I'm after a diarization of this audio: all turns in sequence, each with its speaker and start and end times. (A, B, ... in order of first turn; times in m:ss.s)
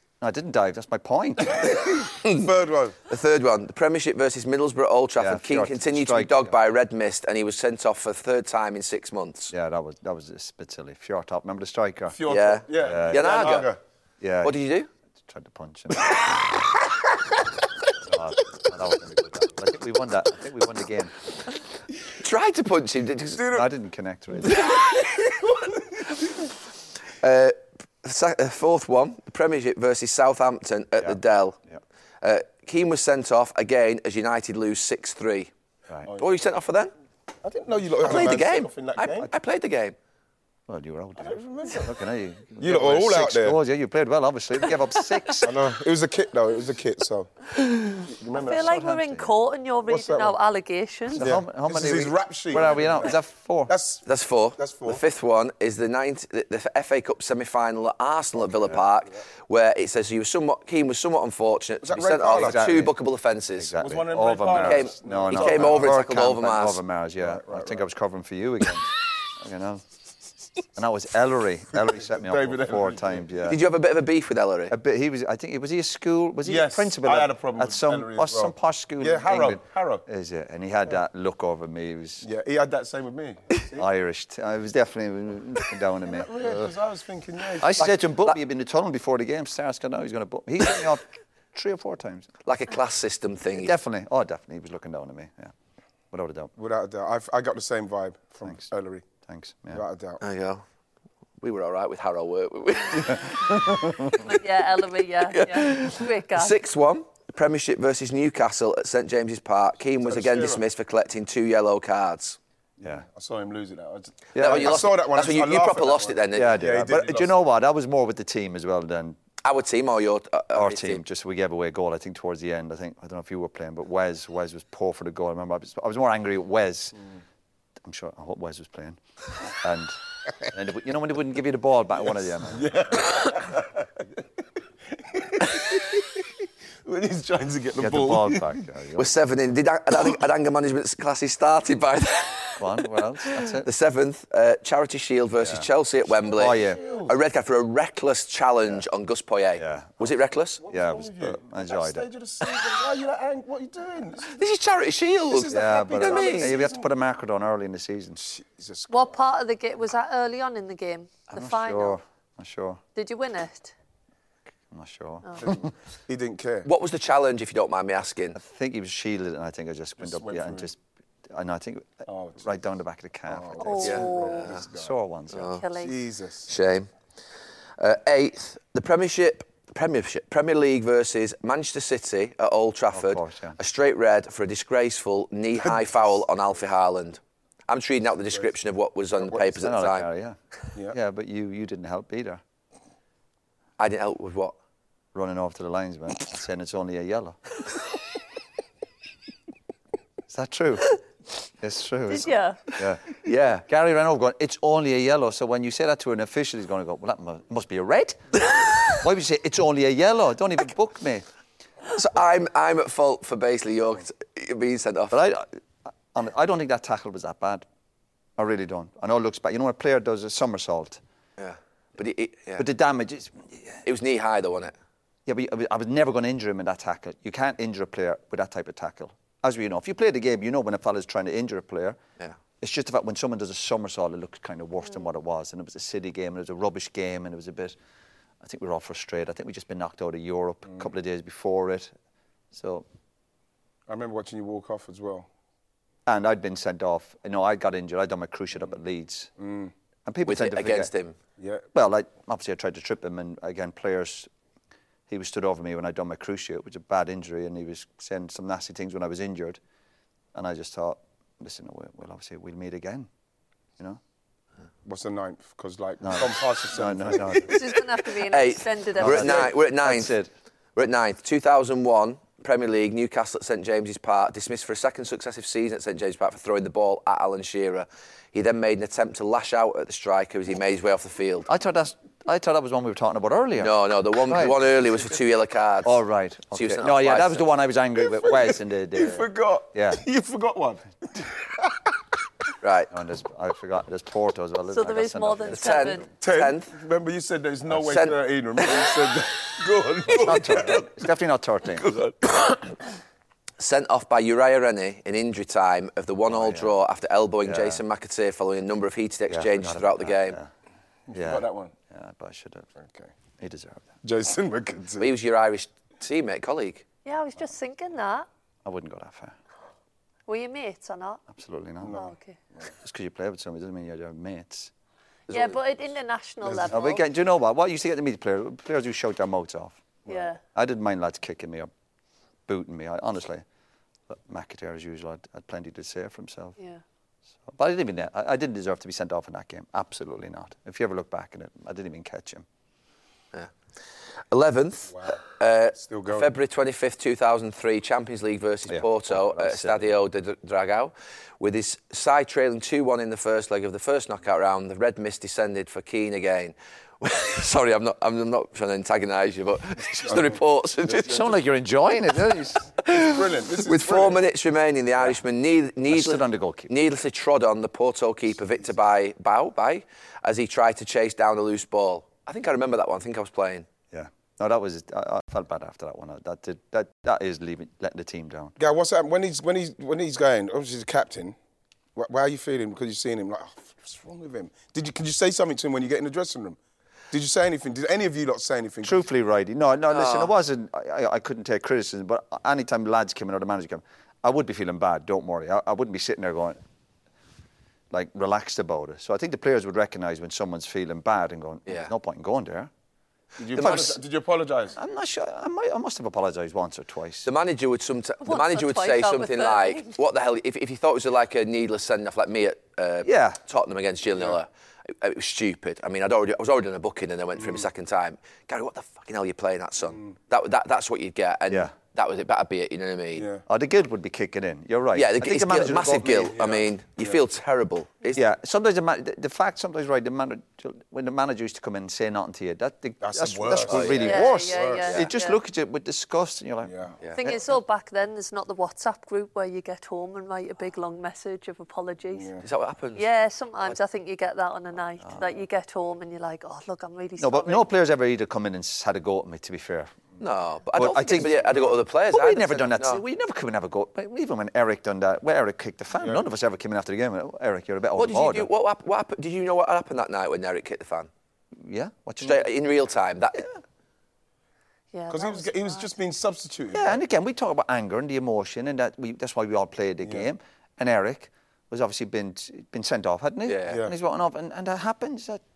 0:00.2-0:02.0 A
0:01.6-0:03.0 B
0:03.1-0:09.5 C
0:05.2-0:06.5 A
0:09.5-0:12.2 A
0:12.1-0:13.8 B
0:12.3-0:13.7 C
0:12.7-0:13.6 A
0:14.2-0:14.5 A
0:14.4-0:14.9 C
0:15.3-0:16.5 A
0:18.0-0:21.1 A
0:22.2-0:23.5 C
0:23.3-0:23.7 B
0:23.4-0:24.7 A
0:24.5-0:25.4 C
0:27.2-0:31.6 C
0:31.0-0:31.8 A
0:32.2-0:35.5 C
0:36.2-0:36.9 C
0:37.4-0:39.3 B
0:38.0-0:39.9 C
0:40.7-0:45.5 A
0:41.2-0:42.0 B
0:42.6-0:43.6 B
0:45.4-0:47.3 B
0:48.0-0:48.8 B
0:48.4-0:51.2 D
0:48.4-0:49.3 A
0:49.9-0:50.4 B
0:51.1-0:53.7 A
0:51.2-0:53.2 B
0:53.7-0:54.0 B
0:54.0-1:03.7 C
0:54.6-0:55.0 B
0:58.4-0:58.8 B
1:01.8-1:02.9 B
1:02.3-1:02.9 A
1:03.6-1:09.8 A
1:03.8-1:06.0 B
1:04.5-1:06.8 C
1:07.2-1:07.9 B
1:10.7-1:13.6 A
1:12.0-1:13.3 B
1:13.4-1:14.7 C
1:14.7-1:22.2 A
1:16.4-1:20.0 B
1:22.2-1:23.8 B
1:23.7-1:26.7 A
1:26.0-1:27.9 B
1:27.6-1:32.3 A
1:27.8-1:28.4 C
1:32.4-1:33.7 C
1:33.5-1:35.5 A
1:36.1-1:36.5 A
1:36.6-1:39.1 B
1:39.2-1:39.8 A
1:39.7-1:40.2 B
1:40.2-1:40.6 C
1:41.4-1:43.8 C
1:43.2-1:44.2 A
1:44.2-1:46.5 D
1:45.3-1:52.4 C
1:50.0-1:50.6 B
1:52.8-1:57.4 B
1:54.4-1:54.8 A
1:54.4-1:56.6 C
1:56.3-1:59.2 A
1:59.4-2:01.0 C
2:00.5-2:07.0 A
2:07.8-2:09.0 A
2:09.5-2:12.7 A
2:12.5-2:14.0 B
2:15.0-2:16.3 B
2:16.8-2:18.6 B
2:17.8-2:19.1 A
2:19.0-2:22.6 C
2:22.6-2:23.7 A
2:23.4-2:30.6 C
2:25.4-2:25.6 A
2:26.3-2:26.8 A
2:26.4-2:27.1 B
2:29.6-2:30.1 A
2:30.6-2:34.4 B
2:30.7-2:32.0 A
2:34.3-2:36.6 C
2:35.3-2:36.9 B
2:35.5-2:38.2 A
2:38.2-2:39.1 B
2:38.9-2:42.0 D
2:41.3-2:42.8 A
2:42.9-2:43.7 D
2:44.7-2:45.7 A
2:45.4-2:46.7 B
2:46.6-2:48.4 C
2:48.3-2:50.8 A
2:50.0-2:50.7 B
2:51.3-2:55.5 A
2:52.0-2:52.6 B
2:53.3-2:54.9 B
2:53.6-2:54.5 D
2:55.3-2:55.6 C
2:55.4-2:55.9 D
2:55.7-2:56.5 B
2:56.5-2:56.9 C
2:57.8-3:10.1 C
3:02.9-3:03.6 A
3:09.5-3:10.4 A
3:10.9-3:12.4 A
3:13.8-3:14.5 C
3:15.1-3:17.4 A
3:20.3-3:21.0 A
3:21.6-3:31.2 A
3:22.1-3:22.6 D
3:31.9-3:35.2 C
3:35.1-3:35.5 A
3:36.1-3:37.6 A
3:38.4-3:41.0 A
3:41.4-3:42.6 C
3:42.6-3:43.8 A
3:43.8-3:44.7 C
3:45.2-3:52.0 A
3:52.6-3:57.8 A
3:58.4-4:01.9 A
4:02.5-4:02.8 A
4:03.9-4:05.3 B
4:06.0-4:09.3 A
4:09.4-4:09.7 B
4:10.0-4:10.9 A
4:10.2-4:11.1 C
4:11.4-4:11.7 B
4:11.7-4:14.3 A
4:15.1-4:19.6 A
4:20.3-4:23.1 A
4:24.8-4:27.5 B
4:26.0-4:27.6 A
4:27.4-4:29.4 D
4:28.3-4:30.1 C
4:29.0-4:30.3 A
4:30.8-4:41.5 C
4:41.5-4:43.7 A
4:43.6-4:47.5 C
4:44.3-4:44.7 A
4:45.8-4:50.0 A
4:48.0-4:51.7 B
4:52.6-4:52.9 C
4:52.9-4:56.0 A
4:54.7-4:56.0 D
4:55.5-4:56.7 C
4:56.2-5:01.0 B
4:57.8-4:58.1 C
5:00.1-5:01.9 A
5:01.7-5:02.6 B
5:03.6-5:10.4 C
5:06.3-5:06.7 A
5:07.4-5:07.8 A
5:09.3-5:10.5 A
5:11.1-5:11.7 B
5:11.1-5:12.7 A
5:12.8-5:13.1 B
5:13.4-5:13.9 A
5:14.0-5:15.1 B
5:15.0-5:16.8 C
5:17.0-5:18.3 D
5:18.6-5:19.4 A
5:20.3-5:21.2 D
5:21.3-5:22.0 A
5:21.8-5:22.6 B
5:21.9-5:22.4 D
5:22.8-5:24.7 A
5:25.3-5:25.6 C
5:25.3-5:27.0 D
5:26.4-5:26.7 B
5:26.7-5:31.7 A
5:30.1-5:30.4 D
5:32.5-5:33.4 A
5:34.1-5:36.6 A
5:37.5-5:42.4 A
5:44.3-6:01.3 C
5:44.9-5:45.2 B
5:45.7-5:46.3 B
5:48.7-5:49.8 A
6:00.0-6:01.3 B
6:00.9-6:02.7 A
6:02.8-6:13.7 C
6:02.9-6:04.2 B
6:05.9-6:06.7 A
6:13.9-6:18.5 A
6:18.6-6:21.4 B
6:22.0-6:26.6 B
6:27.1-6:29.0 B
6:28.8-6:36.6 A
6:29.9-6:30.3 C
6:37.9-6:42.7 A
6:43.4-6:44.8 B
6:43.5-6:44.0 C
6:43.6-6:44.0 A
6:44.8-6:47.3 A
6:47.2-6:54.5 C
6:48.2-6:49.9 D
6:53.0-6:53.4 A
6:55.0-7:03.3 C
6:57.4-6:57.7 B
7:03.1-7:03.4 B
7:03.5-7:06.4 A
7:04.9-7:08.2 C
7:06.3-7:07.2 B
7:08.1-7:16.8 A
7:13.0-7:15.0 B
7:13.6-7:14.2 C
7:14.0-7:15.4 D
7:16.6-7:17.0 B
7:17.2-7:22.3 D
7:22.1-7:22.4 B
7:22.4-7:23.0 C
7:23.0-7:27.7 D
7:27.2-7:30.0 A
7:30.2-7:33.0 C
7:30.7-7:38.5 A
7:35.9-7:36.2 B
7:38.0-7:41.1 C
7:41.6-7:42.5 A
7:42.2-7:43.5 C
7:44.9-7:45.9 D
7:45.1-7:47.0 B
7:46.7-7:55.4 A
7:50.0-7:50.3 B
7:53.4-7:53.8 C
7:53.7-7:53.9 B